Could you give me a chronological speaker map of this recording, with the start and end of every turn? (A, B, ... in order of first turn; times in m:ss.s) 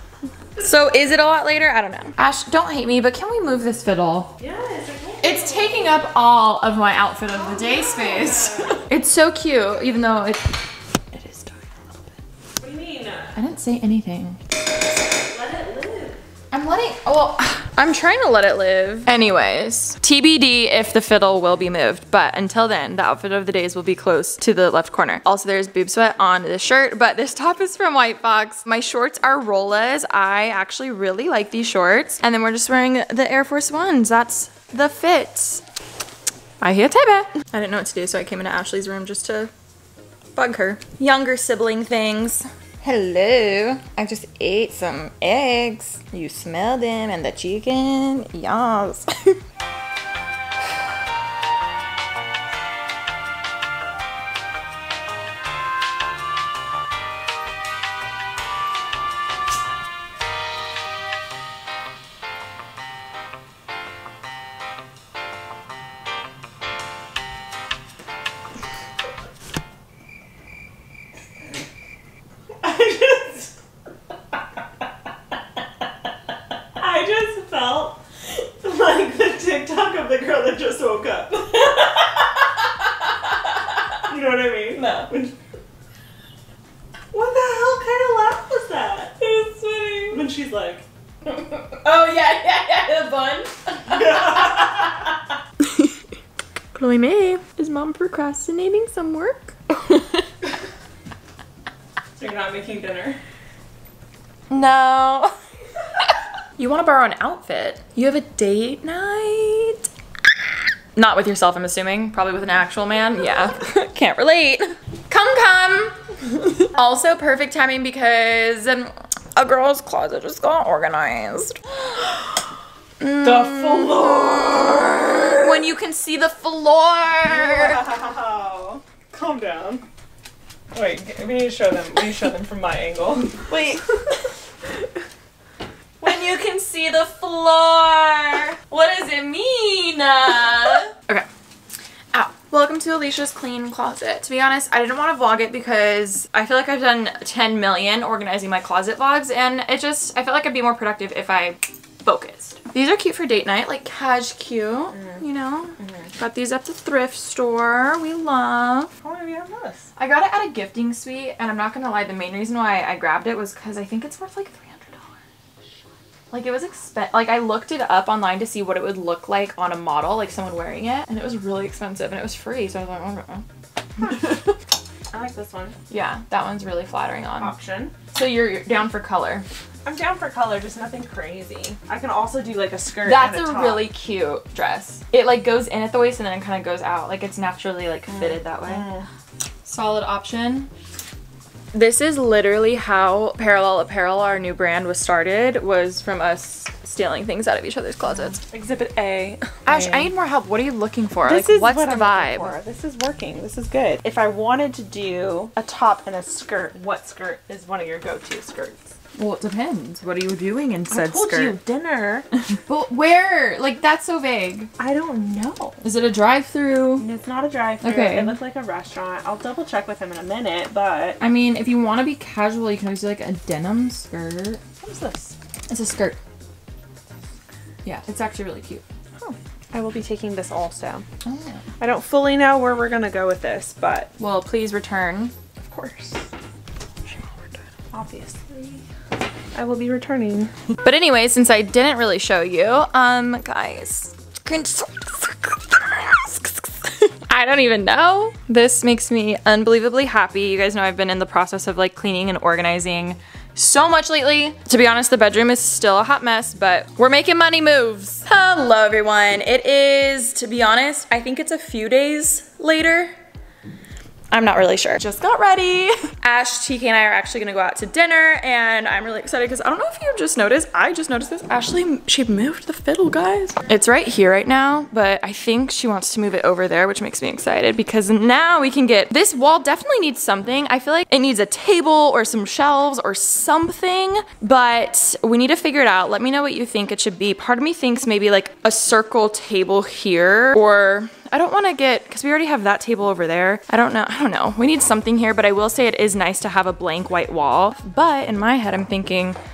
0:00.6-0:04.4 A
0:04.4-0:05.9 B
0:05.2-0:10.5 A
0:07.6-0:08.8 B
0:11.1-0:12.1 A
0:12.6-0:13.4 B
0:13.4-0:14.4 A
0:15.3-0:16.2 B
0:16.5-0:35.6 A
0:36.6-0:39.5 A
0:40.4-0:49.4 A
1:12.6-1:13.5 B
1:16.8-1:21.8 B
1:24.1-1:25.4 B
1:24.7-1:25.1 A
1:27.1-1:29.1 B
1:29.2-1:30.3 A
1:30.1-1:30.8 B
1:31.2-1:34.8 A
1:33.9-1:34.7 B
1:35.6-1:36.0 A
1:36.8-1:40.3 A
1:42.2-1:43.2 B
1:44.5-1:45.3 A
1:46.6-1:49.9 A
1:51.0-2:01.6 A
2:03.0-2:04.4 A
2:03.2-2:05.6 B
2:05.4-2:07.9 A
2:07.3-2:09.8 B
2:10.7-2:13.4 B
2:13.4-2:14.0 A
2:16.0-2:21.3 A
2:22.1-2:38.9 A
2:39.0-2:39.9 B
2:40.0-2:45.2 A
2:46.3-2:53.4 A
2:54.0-2:54.5 A
2:55.1-2:55.8 B
2:55.9-2:57.5 A
2:57.4-2:58.0 B
2:58.1-2:59.4 A
2:59.8-3:03.9 B
3:03.0-3:08.9 A
3:08.1-3:09.1 B
3:09.6-3:10.7 A
3:11.7-3:18.4 A
3:18.5-3:20.1 B
3:19.6-3:22.6 A
3:21.2-3:28.9 B
3:29.2-3:31.6 A
3:30.9-3:32.3 B
3:32.7-3:34.7 A
3:34.8-3:35.8 B
3:35.8-3:37.1 A
3:37.0-3:41.2 B
3:37.8-3:38.4 A
3:41.2-3:44.6 A
3:44.8-3:45.4 B
3:45.7-3:46.2 A
3:47.8-3:48.8 A
3:49.2-3:51.0 B
3:51.2-3:51.6 A
3:51.8-3:54.1 B
3:54.2-3:55.3 A
3:55.6-3:56.2 B
3:57.1-3:57.6 A
3:57.9-3:58.8 B
3:59.6-4:00.5 B
4:00.8-4:23.1 A
4:24.3-4:59.4 A